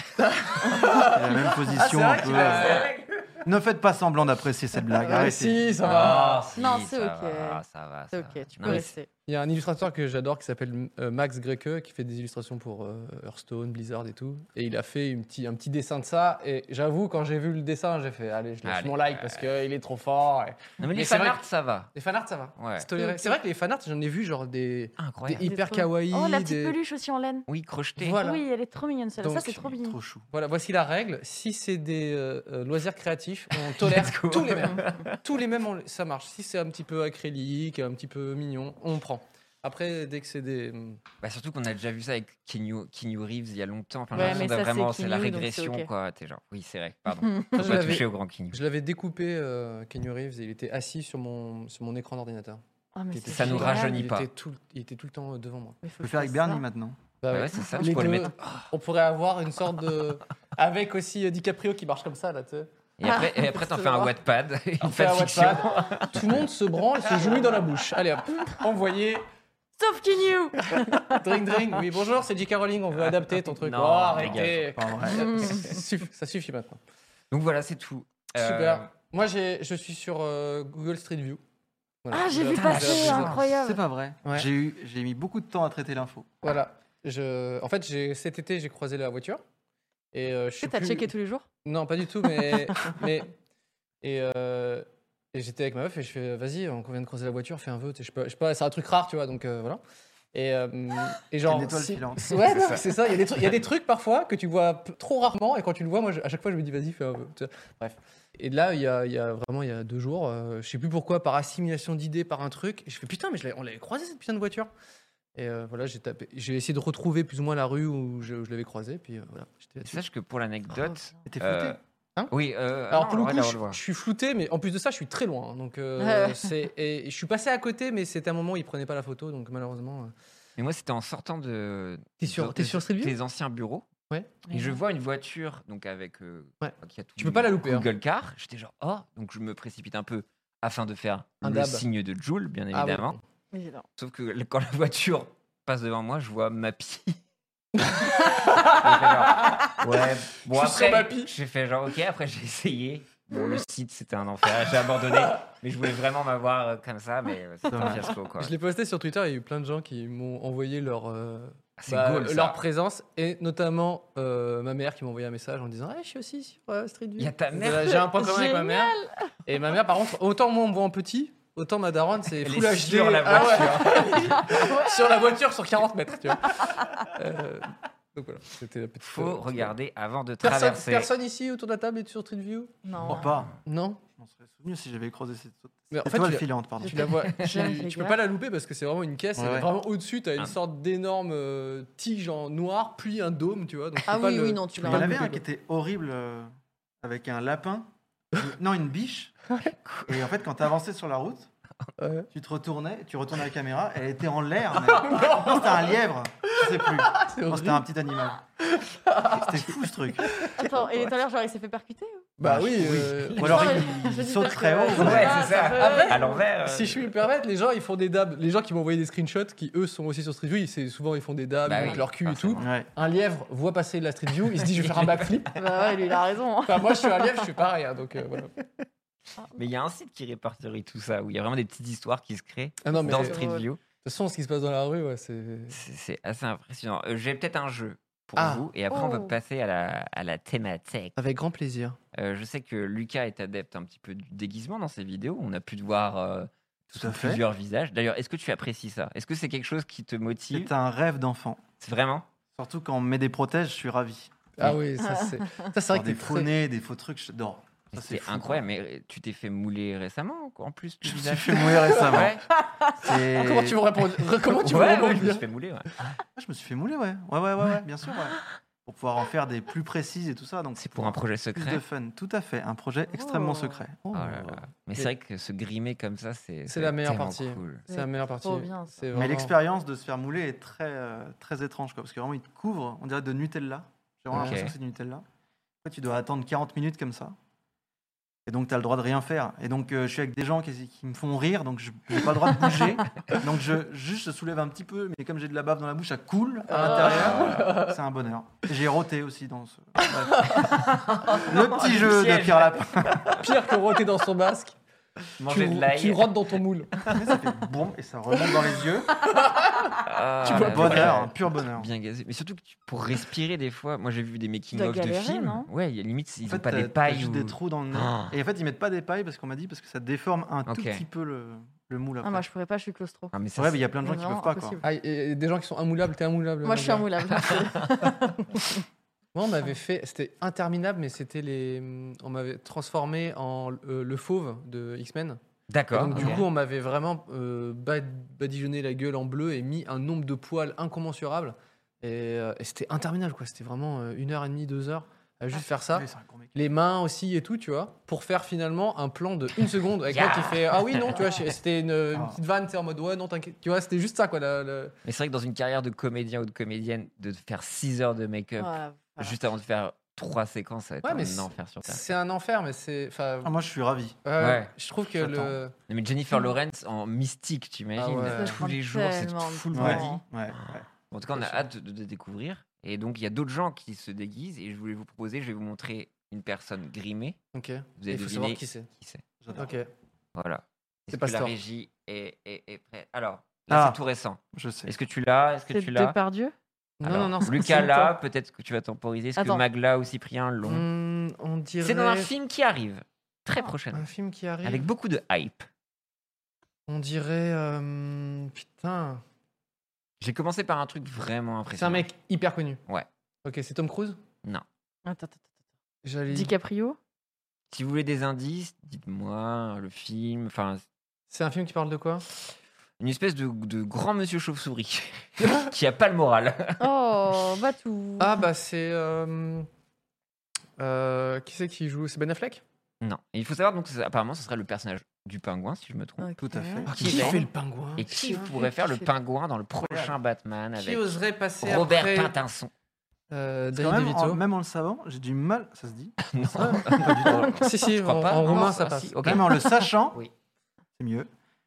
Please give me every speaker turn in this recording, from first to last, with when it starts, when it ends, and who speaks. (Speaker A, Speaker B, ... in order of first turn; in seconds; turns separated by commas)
Speaker A: 0.2-2.9, Speaker B: 0.9-2.9, Speaker C: 2.3-3.3, Speaker B: 3.4-5.7, Speaker A: 5.0-6.4, Speaker D: 5.8-9.1, Speaker C: 5.8-8.9, Speaker A: 8.6-26.8, Speaker C: 18.6-19.5, Speaker C: 20.8-21.9, Speaker C: 22.6-22.9, Speaker D: 23.0-23.4, Speaker C: 25.0-25.5, Speaker D: 25.4-27.5, Speaker C: 27.5-28.2, Speaker A: 28.0-28.4, Speaker D: 28.2-30.0, Speaker A: 29.2-29.6, Speaker B: 29.8-30.2, Speaker A: 30.3-41.0, Speaker C: 33.5-35.2, Speaker C: 41.2-48.6, Speaker D: 44.1-45.9, Speaker A: 44.1-44.5, Speaker D: 47.3-47.5, Speaker A: 47.5-52.6, Speaker D: 52.9-54.0, Speaker A: 53.1-55.8, Speaker C: 53.3-54.3, Speaker D: 55.8-56.6, Speaker B: 56.0-57.0, Speaker A: 57.2-62.7, Speaker C: 57.3-58.7, Speaker C: 63.0-66.4, Speaker D: 63.0-64.1, Speaker A: 64.8-69.2, Speaker D: 69.8-71.2, Speaker A: 71.0-76.8, Speaker C: 72.9-74.7, Speaker B: 74.2-75.5, Speaker D: 75.1-75.7, Speaker C: 77.3-78.9, Speaker A: 78.3-81.4, Speaker A: 82.0-83.4, Speaker D: 82.1-83.8, Speaker C: 82.5-83.5, Speaker B: 83.5-86.3, Speaker A: 86.4-89.4, Speaker A: 90.1-91.1, Speaker D: 90.6-91.5, Speaker A: 91.6-93.3, Speaker D: 92.4-93.0, Speaker A: 94.0-99.8, Speaker A: 100.3-114.7, Speaker B: 101.4-102.4, Speaker C: 102.4-102.8, Speaker A: 115.3-120.0, Speaker C: 119.8-121.8, Speaker B: 121.2-121.8, Speaker C: 122.3-123.8, Speaker A: 122.9-130.1, Speaker D: 126.0-126.5, Speaker C: 130.6-133.9, Speaker A: 132.2-133.1, Speaker D: 134.5-134.8, Speaker C: 134.5-143.2, Speaker A: 136.6-137.9, Speaker A: 141.4-141.8, Speaker A: 142.7-143.2, Speaker D: 143.5-143.8, Speaker C: 144.0-147.2, Speaker A: 147.8-149.8, Speaker C: 148.6-158.5, Speaker A: 150.5-151.3, Speaker B: 157.7-158.1, Speaker A: 158.4-179.7, Speaker C: 161.8-162.6, Speaker C: 167.2-168.1, Speaker D: 168.0-169.3, Speaker C: 172.4-174.4, Speaker D: 174.3-175.1, Speaker C: 179.0-181.1, Speaker A: 180.4-184.0, Speaker D: 182.8-183.2, Speaker B: 183.1-183.6, Speaker B: 184.2-187.1, Speaker A: 185.9-195.4, Speaker D: 186.8-188.2, Speaker B: 189.3-189.7, Speaker D: 194.1-195.2, Speaker B: 194.8-196.5, Speaker B: 197.0-199.4, Speaker C: 199.8-200.2, Speaker B: 200.1-201.5, Speaker A: 202.0-202.3, Speaker B: 202.3-208.4, Speaker A: 204.9-205.9, Speaker A: 206.5-207.9, Speaker A: 208.6-210.7, Speaker B: 209.3-210.4, Speaker D: 210.6-212.3, Speaker A: 212.4-213.8, Speaker B: 212.4-215.4, Speaker C: 213.3-213.7, Speaker D: 213.4-216.4, Speaker C: 214.9-217.1, Speaker A: 215.0-225.5, Speaker C: 221.6-222.7, Speaker B: 222.6-222.9, Speaker C: 224.6-225.9, Speaker D: 225.6-227.5, Speaker A: 226.7-228.5, Speaker C: 229.5-233.8, Speaker A: 232.8-233.4, Speaker D: 233.0-233.7, Speaker A: 234.0-235.8, Speaker C: 235.7-241.1, Speaker A: 238.4-238.6, Speaker D: 238.9-239.3, Speaker A: 241.2-242.0, Speaker C: 242.1-250.7, Speaker B: 246.9-247.4, Speaker B: 250.5-251.6, Speaker C: 251.8-252.3, Speaker B: 252.5-254.4, Speaker A: 254.6-256.5, Speaker D: 255.2-255.7, Speaker B: 255.9-258.6, Speaker C: 257.9-262.4, Speaker B: 261.0-262.4, Speaker D: 262.6-262.9, Speaker B: 263.0-263.8, Speaker A: 263.0-265.4, Speaker C: 264.5-266.0, Speaker B: 266.4-274.0, Speaker C: 270.8-271.8, Speaker D: 273.1-273.8, Speaker A: 274.0-275.1, Speaker C: 274.1-277.8, Speaker A: 276.7-279.5, Speaker D: 277.9-279.1, Speaker B: 279.1-285.2, Speaker A: 284.3-284.6, Speaker C: 284.3-284.7, Speaker B: 285.8-287.4, Speaker B: 288.4-303.4, Speaker A: 296.7-298.0, Speaker C: 296.8-297.7, Speaker A: 300.3-300.7, Speaker C: 300.7-303.4, Speaker A: 303.4-304.8, Speaker C: 305.4-306.4, Speaker A: 305.4-307.1, Speaker B: 307.1-309.2, Speaker A: 309.2-311.2, Speaker C: 310.1-318.3, Speaker B: 310.4-311.9, Speaker D: 314.7-315.7, Speaker B: 316.5-322.4, Speaker C: 320.6-321.0, Speaker D: 322.2-323.4, Speaker C: 323.3-323.8, Speaker B: 323.6-324.8, Speaker D: 324.0-324.8, Speaker A: 324.8-327.1, Speaker D: 326.6-328.8, Speaker C: 327.4-327.9, Speaker A: 329.3-335.4, Speaker C: 335.7-336.4, Speaker A: 335.9-354.9, Speaker B: 336.1-336.4, Speaker B: 345.9-346.5, Speaker C: 350.1-351.2, Speaker C: 355.0-362.0, Speaker D: 358.6-359.4, Speaker A: 361.0-363.5, Speaker B: 363.4-364.2, Speaker A: 364.2-365.7, Speaker C: 364.4-377.4, Speaker A: 367.9-368.6, Speaker D: 368.3-370.2, Speaker B: 369.7-370.9, Speaker A: 371.3-371.7, Speaker A: 377.5-378.9, Speaker C: 378.0-379.2, Speaker B: 379.4-379.8, Speaker A: 379.5-379.9, Speaker C: 380.4-386.1, Speaker A: 381.1-381.5, Speaker B: 383.7-384.0, Speaker B: 384.5-384.9, Speaker D: 385.7-386.5, Speaker A: 387.0-388.1, Speaker C: 387.0-390.9, Speaker D: 389.4-389.6, Speaker A: 390.6-392.3, Speaker C: 391.8-394.1, Speaker A: 393.9-394.9, Speaker C: 394.6-395.7, Speaker A: 396.9-399.2, Speaker C: 400.2-402.1, Speaker A: 401.7-402.8, Speaker A: 403.4-404.2, Speaker D: 405.1-405.4, Speaker A: 406.0-406.5, Speaker D: 406.3-407.0, Speaker C: 407.7-410.8, Speaker A: 411.3-412.2, Speaker C: 413.0-416.8, Speaker D: 416.8-418.4, Speaker A: 418.2-419.7, Speaker A: 420.8-422.6, Speaker C: 423.0-426.3, Speaker D: 426.2-427.4, Speaker B: 426.4-427.3, Speaker A: 426.9-428.5, Speaker C: 426.9-427.4, Speaker C: 428.0-432.7, Speaker D: 428.3-429.1, Speaker B: 429.8-430.1, Speaker A: 430.8-432.3, Speaker A: 433.3-434.4, Speaker B: 433.7-437.6, Speaker C: 436.3-440.3, Speaker A: 436.6-436.9, Speaker A: 437.6-439.4, Speaker B: 439.2-440.2, Speaker B: 441.0-441.3